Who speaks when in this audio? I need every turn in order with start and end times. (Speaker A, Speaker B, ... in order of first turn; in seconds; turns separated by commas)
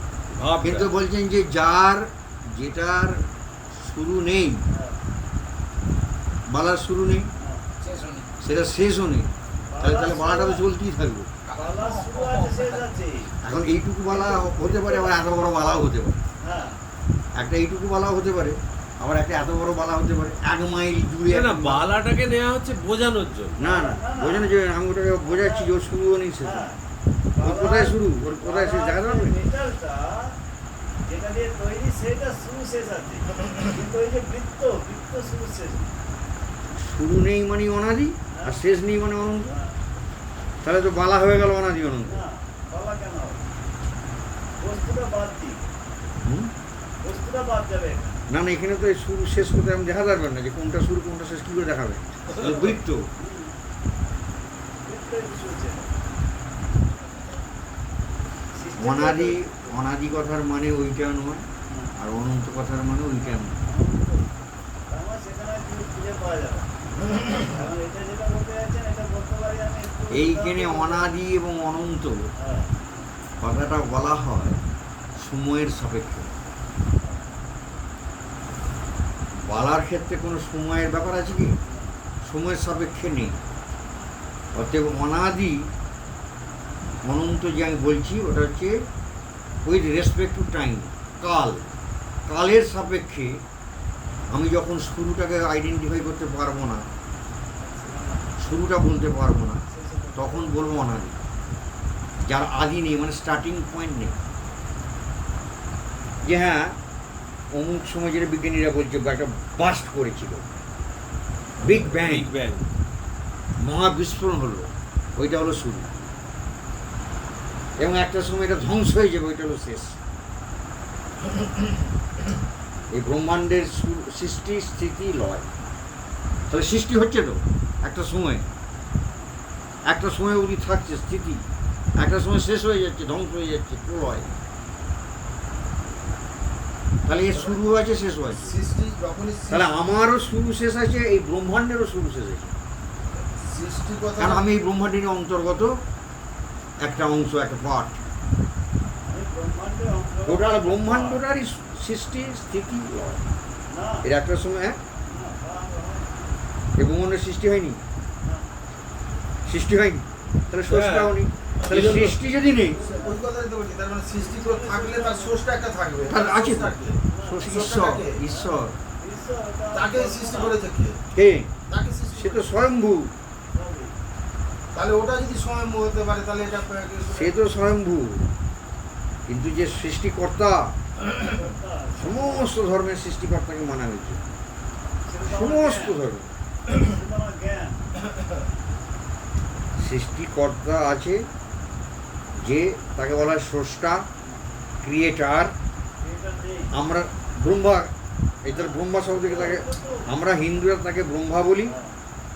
Speaker A: 0.3-0.9, Speaker B: 0.6-4.6, Speaker C: 4.7-5.0, Speaker B: 6.5-7.3, Speaker C: 7.4-7.6, Speaker D: 7.8-8.3, Speaker B: 8.4-11.3, Speaker C: 9.7-10.6, Speaker D: 11.4-12.9, Speaker C: 11.6-13.3, Speaker B: 13.4-16.2, Speaker C: 14.1-15.3, Speaker C: 16.4-16.8, Speaker B: 17.3-21.9, Speaker A: 21.3-23.6, Speaker B: 23.6-26.7, Speaker C: 23.6-24.6, Speaker C: 25.2-25.7, Speaker C: 26.4-26.8, Speaker C: 27.4-30.4, Speaker B: 27.4-29.4, Speaker C: 31.0-35.9, Speaker B: 36.7-39.5, Speaker C: 38.3-38.6, Speaker C: 39.4-39.7, Speaker B: 40.6-42.2, Speaker C: 42.0-43.4, Speaker C: 44.6-45.6, Speaker B: 46.2-46.5, Speaker C: 47.0-48.2, Speaker B: 48.3-53.1, Speaker C: 53.2-53.5, Speaker C: 54.8-55.9, Speaker C: 58.5-59.5, Speaker B: 58.8-63.6, Speaker C: 61.6-61.9, Speaker C: 63.2-64.3, Speaker C: 64.9-71.1, Speaker B: 70.1-72.3, Speaker C: 72.4-72.8, Speaker B: 73.4-74.6, Speaker B: 75.2-76.3, Speaker C: 77.0-77.3, Speaker B: 79.3-81.5, Speaker C: 81.7-82.0, Speaker B: 82.2-83.4, Speaker B: 84.5-85.7, Speaker B: 87.0-88.7, Speaker B: 89.6-91.6, Speaker B: 92.3-93.4, Speaker B: 94.3-96.8, Speaker C: 97.6-98.4, Speaker B: 98.4-99.6, Speaker C: 99.7-100.5, Speaker B: 100.1-101.2, Speaker B: 102.2-104.2, Speaker B: 106.2-106.8, Speaker B: 107.5-110.4, Speaker B: 111.6-112.3, Speaker A: 111.6-112.7, Speaker B: 113.6-115.9, Speaker B: 117.8-120.0, Speaker B: 122.9-125.5, Speaker B: 126.5-128.5, Speaker B: 129.8-131.4, Speaker B: 132.0-134.3, Speaker B: 137.1-138.5, Speaker E: 137.3-137.6, Speaker E: 138.3-139.8, Speaker B: 139.5-142.6, Speaker E: 143.3-144.5, Speaker B: 144.2-145.8, Speaker B: 146.8-148.0, Speaker C: 149.0-151.2, Speaker B: 150.2-153.2, Speaker C: 153.7-154.1, Speaker B: 154.0-154.8, Speaker C: 155.0-156.4, Speaker B: 156.8-157.8, Speaker C: 158.2-158.5, Speaker B: 159.4-162.8, Speaker A: 160.7-161.2, Speaker E: 161.6-168.2, Speaker C: 162.7-163.2, Speaker C: 164.2-165.4, Speaker B: 166.1-168.7, Speaker C: 167.1-167.5, Speaker C: 168.2-170.6, Speaker E: 169.7-171.0, Speaker B: 171.1-171.5, Speaker E: 171.7-172.5, Speaker B: 172.1-173.1, Speaker C: 173.5-174.0, Speaker E: 174.7-177.3, Speaker B: 177.1-178.3, Speaker B: 179.3-180.7, Speaker C: 181.2-182.5, Speaker B: 182.0-184.2, Speaker C: 185.1-186.0, Speaker B: 185.2-186.3, Speaker C: 186.7-187.9, Speaker B: 189.8-191.2, Speaker B: 192.4-194.1, Speaker B: 194.8-195.5, Speaker C: 196.0-196.7, Speaker B: 196.7-197.9, Speaker B: 198.4-201.7, Speaker C: 198.5-200.1, Speaker C: 201.6-202.0